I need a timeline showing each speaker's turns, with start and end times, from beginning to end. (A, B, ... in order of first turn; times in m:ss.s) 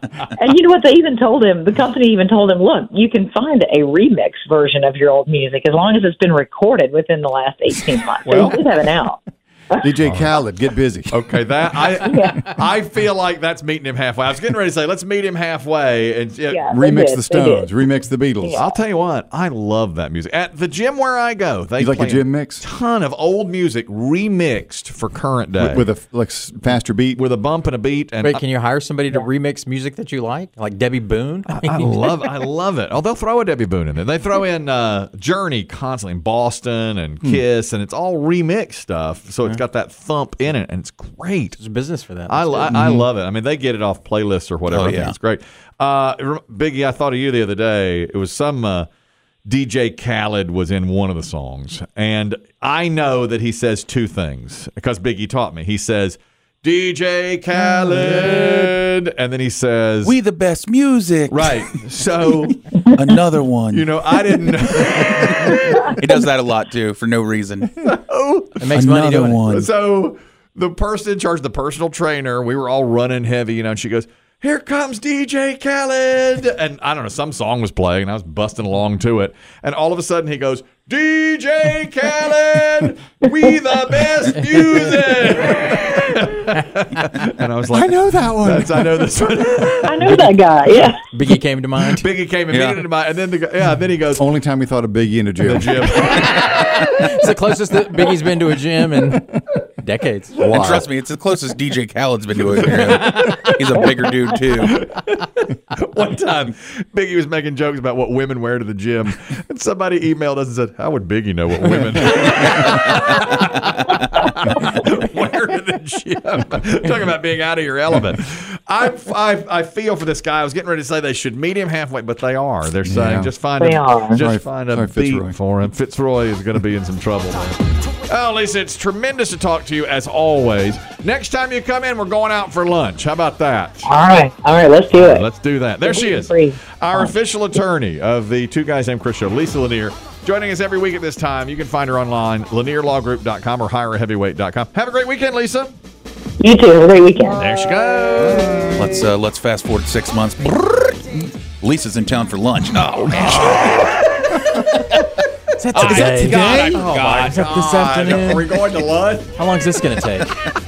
0:00.4-0:09.9 A
0:08.2-0:08.6 B
0:09.8-0:11.2 C
0:10.0-0:10.3 B
0:11.1-0:16.6 B
0:12.0-0:12.5 A
0:16.5-0:17.7 A
0:16.7-0:18.6 C
0:18.4-0:18.8 A
0:18.6-0:25.9 B
0:21.8-0:22.6 C
0:25.6-0:27.2 C
0:27.1-0:28.4 B
0:28.2-0:32.1 D
0:31.5-0:41.6 B
0:41.6-0:42.8 D
0:42.3-0:48.9 B
0:42.7-0:43.1 E
0:44.7-0:45.2 E
0:49.5-1:00.2 B
1:00.0-1:01.7 E
1:01.3-1:02.6 B
1:02.9-1:04.1 E
1:03.7-1:06.0 B
1:05.5-1:07.8 E
1:07.8-1:08.8 B
1:08.6-1:09.4 D
1:08.7-1:09.7 E
1:09.3-1:30.2 B
1:27.7-1:29.0 C
1:29.8-1:31.0 A
1:31.1-1:32.1 D
1:31.9-1:34.3 B
1:32.5-1:32.8 E
1:34.2-1:36.2 C
1:35.4-1:36.9 B
1:36.4-1:40.3 D
1:40.4-1:40.9 C
1:40.4-1:44.8 E
1:42.7-2:13.9 B
2:02.8-2:03.3 C
2:03.6-2:04.2 A
2:04.2-2:05.4 C
2:13.8-2:15.3 A
2:14.9-2:25.7 B
2:15.8-2:17.2 A
2:26.4-2:27.5 A
2:27.3-2:28.8 B
2:28.3-2:28.7 C
2:28.8-2:33.9 E
2:33.1-2:34.4 B
2:35.6-2:36.5 D
2:35.8-2:36.9 C
2:35.8-2:39.4 B
2:37.1-2:38.5 D
2:39.4-2:40.3 D